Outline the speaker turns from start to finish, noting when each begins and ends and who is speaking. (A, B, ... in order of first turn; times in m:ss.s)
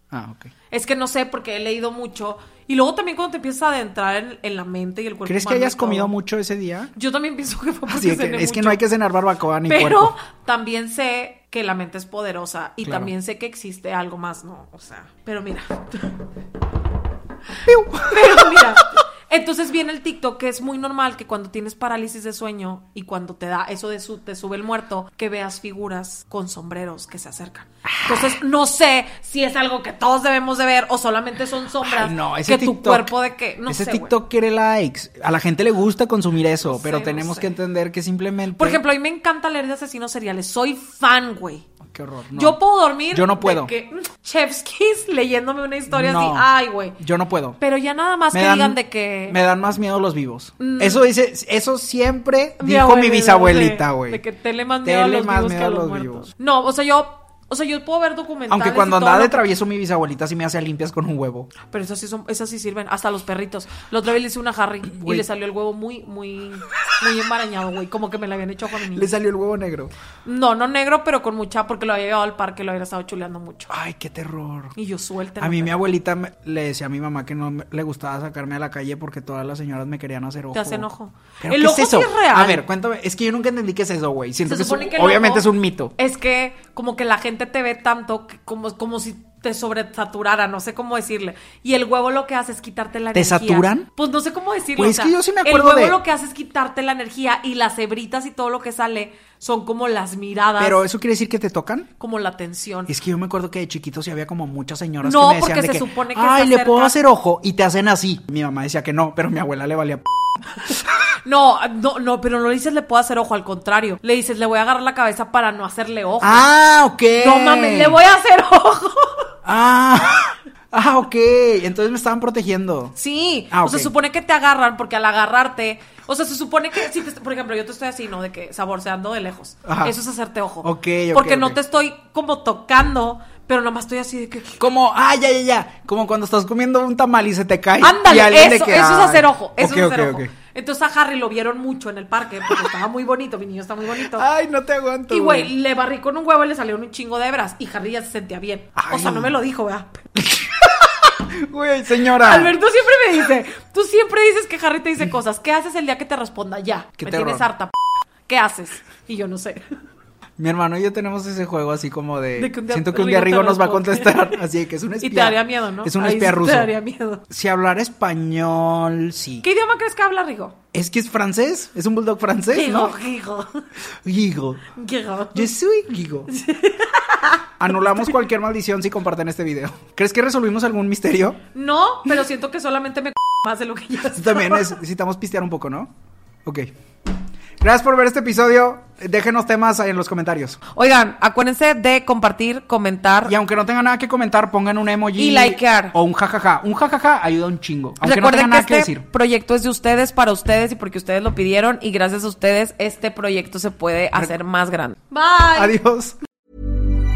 0:00.1-0:00.5 A
0:00.7-0:06.1 B
0:05.3-0:06.9 A
0:07.0-0:08.8 B
0:07.9-0:10.1 A
0:09.7-0:16.2 B
0:12.8-0:13.1 A
0:17.7-0:18.8 A
0:18.0-0:34.1 B
0:28.1-0:28.3 A
0:31.8-0:33.2 A
0:33.7-0:38.8 A
0:36.6-0:37.5 B
0:38.6-0:41.7 B
0:41.8-0:42.6 A
0:42.3-0:47.0 B
0:43.1-0:43.7 A
0:45.9-0:47.6 A
0:47.6-0:49.4 B
0:48.3-0:54.2 A
0:50.6-0:51.0 B
0:52.6-0:59.4 B
0:54.8-0:56.3 A
0:58.5-1:01.5 A
1:01.7-1:09.1 B
1:04.9-1:05.3 A
1:08.9-1:09.9 A
1:10.2-1:13.7 B
1:13.7-1:14.8 A
1:14.8-1:15.8 B
1:15.4-1:20.9 A
1:20.5-1:22.6 B
1:21.4-1:25.9 A
1:24.4-1:40.8 B
1:33.1-1:33.9 A
1:34.7-1:36.0 A
1:40.6-1:41.9 A
1:42.0-1:42.9 B
1:42.9-1:50.9 A
1:45.0-1:47.0 B
1:51.2-1:56.5 B
1:56.2-1:58.0 A
1:57.2-1:59.3 B
1:59.4-2:02.9 A
2:03.0-2:14.6 B
2:03.5-2:03.9 A
2:09.6-2:10.0 A
2:10.6-2:11.6 A
2:14.6-2:20.3 A
2:17.8-2:24.3 B
2:24.0-2:25.5 A
2:25.1-2:30.1 B
2:28.8-2:29.3 A
2:30.2-2:32.6 A
2:32.1-2:37.7 B
2:37.0-2:37.5 A
2:38.3-2:39.8 B
2:40.4-2:46.7 A
2:42.4-2:44.4 B
2:45.0-2:47.2 B
2:47.3-2:49.5 A
2:49.4-2:50.6 B
2:50.7-2:53.0 A
2:52.5-2:53.6 B
2:54.0-2:54.7 A
2:54.7-2:55.5 B
2:55.3-2:56.3 A
2:56.3-2:57.5 B
2:57.6-3:01.4 A
3:01.5-3:04.8 B
3:04.1-3:05.9 A
3:06.4-3:06.7 A
3:07.6-3:10.6 A
3:10.7-3:13.3 B
3:13.3-3:19.0 A
3:15.2-3:16.0 B
3:18.0-3:25.8 B
3:25.5-3:26.2 A